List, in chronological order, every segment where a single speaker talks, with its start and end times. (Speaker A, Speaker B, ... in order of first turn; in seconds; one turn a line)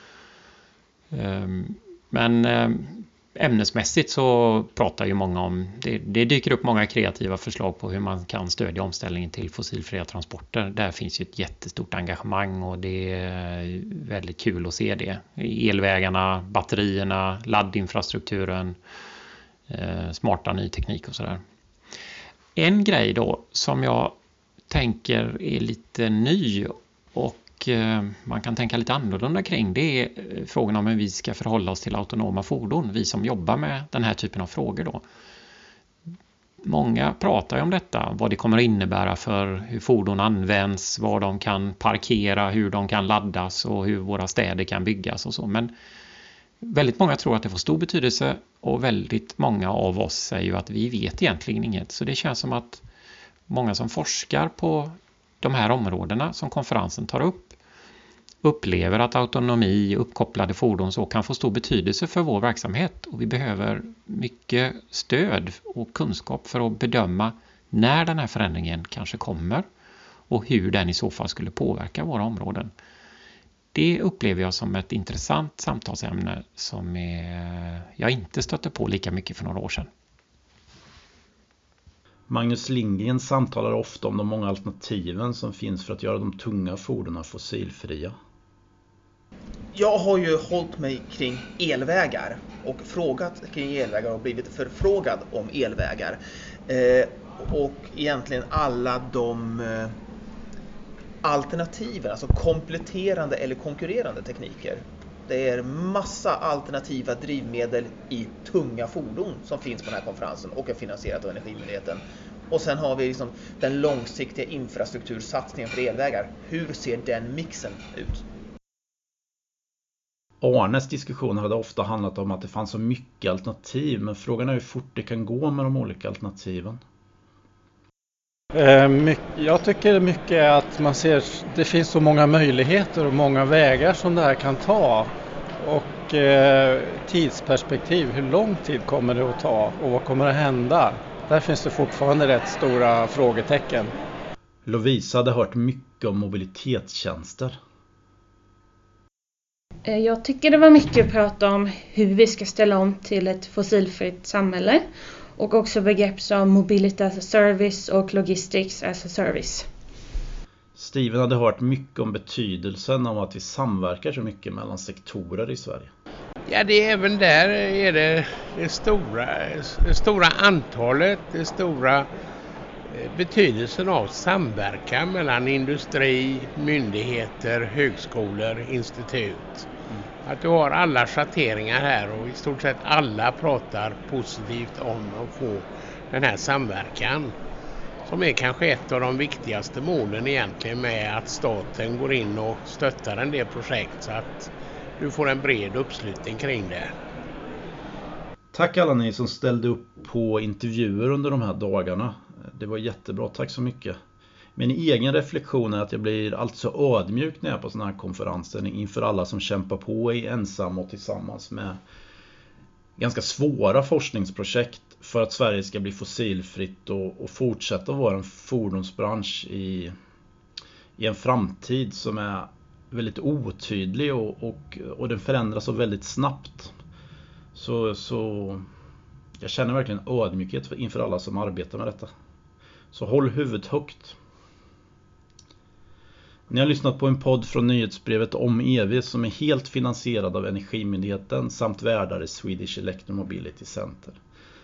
Speaker A: 1.1-18.8
Speaker A: 19.7-21.4
Speaker A: 22.6-24.1
Speaker A: 24.7-35.0
Speaker A: 36.6-45.7
Speaker A: 46.6-52.8
Speaker A: 53.5-57.5
Speaker A: 58.4-69.6
Speaker A: 70.3-72.7
Speaker A: 73.7-79.9
Speaker B: 82.3-88.1
Speaker C: 89.7-99.9
Speaker C: 101.2-118.2
Speaker B: 120.4-126.8
Speaker D: 128.6-135.1
Speaker D: 135.6-143.9
Speaker B: 144.7-147.6
Speaker E: 149.9-154.9
Speaker E: 155.4-159.7
Speaker B: 160.8-165.9
Speaker F: 166.5-172.1
Speaker F: 172.9-179.7
Speaker F: 180.2-187.3
Speaker F: 188.1-196.9
Speaker B: 198.5-204.0
Speaker B: 204.6-211.8
Speaker B: 213.0-219.9
Speaker B: 221.0-226.7
Speaker B: 227.5-228.6
Speaker B: 229.4-232.1
Speaker B: 232.9-234.2
Speaker B: 236.5-244.2